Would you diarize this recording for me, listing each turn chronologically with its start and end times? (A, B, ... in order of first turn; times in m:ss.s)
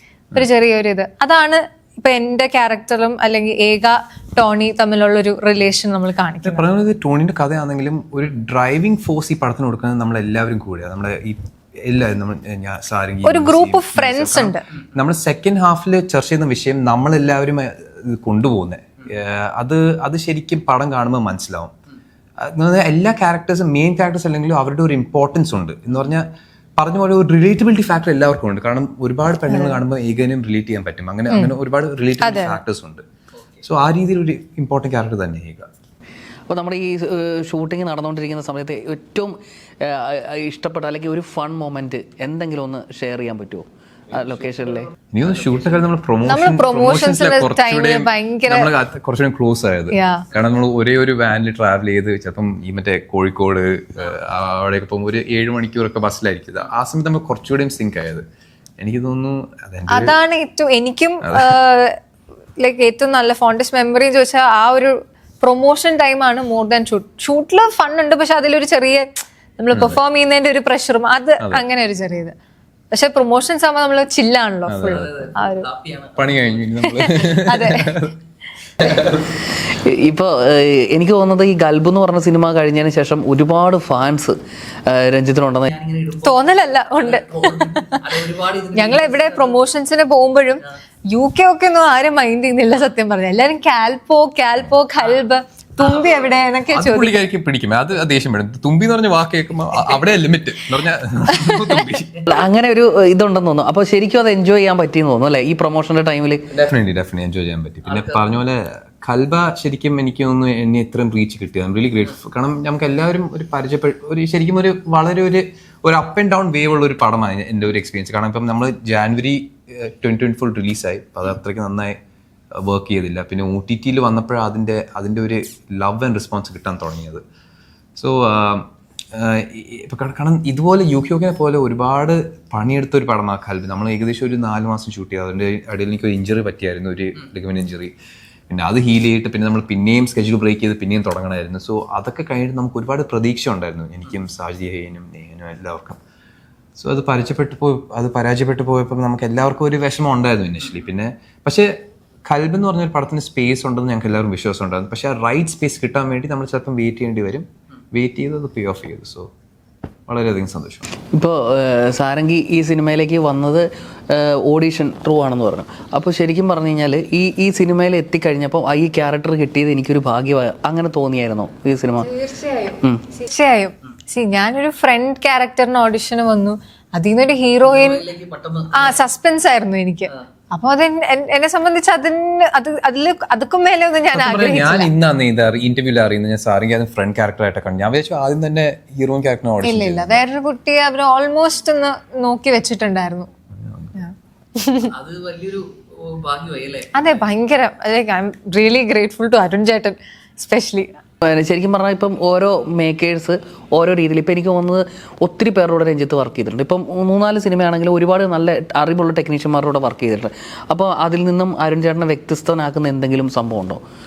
0:00.3-0:06.6 A
0:06.4-0:21.7 B
0:13.2-0:14.7 A
0:22.4-0:26.3 B
0:26.8-0:33.0 B
0:29.5-0:29.8 A
0:31.3-0:31.5 A
0:32.2-0:32.6 A
0:33.6-0:35.7 B
0:36.5-0:44.9 C
0:45.1-0:58.2 B
0:46.2-0:48.7 A
0:49.9-0:50.3 A
0:58.8-1:00.2 B
0:59.9-1:02.0 A
1:01.2-1:01.6 B
1:02.6-1:12.3 A
1:09.7-1:10.0 B
1:12.9-1:15.7 A
1:14.7-1:15.1 B
1:14.8-1:16.4 C
1:16.2-1:18.2 B
1:16.8-1:18.0 A
1:18.8-1:19.2 B
1:18.9-1:26.3 C
1:26.2-1:37.2 A
1:27.0-1:29.6 C
1:36.7-1:42.4 B
1:41.4-1:41.8 A
1:42.2-1:46.5 C
1:46.5-2:02.0 B
1:47.9-1:48.2 C
2:02.5-2:07.2 B
2:08.0-2:17.9 B
2:18.5-2:26.0 B
2:26.8-2:31.7 B
2:32.2-2:39.3 B
2:40.1-2:40.8 B
2:41.1-2:52.1 C
2:52.0-2:58.0 A
2:57.6-2:59.0 C
2:58.7-3:04.9 A
3:04.1-3:10.2 B
3:09.6-3:13.3 A
3:13.6-3:13.9 B
3:14.0-3:14.9 A
3:14.9-3:16.9 C
3:16.9-3:21.0 A
3:21.2-3:33.8 C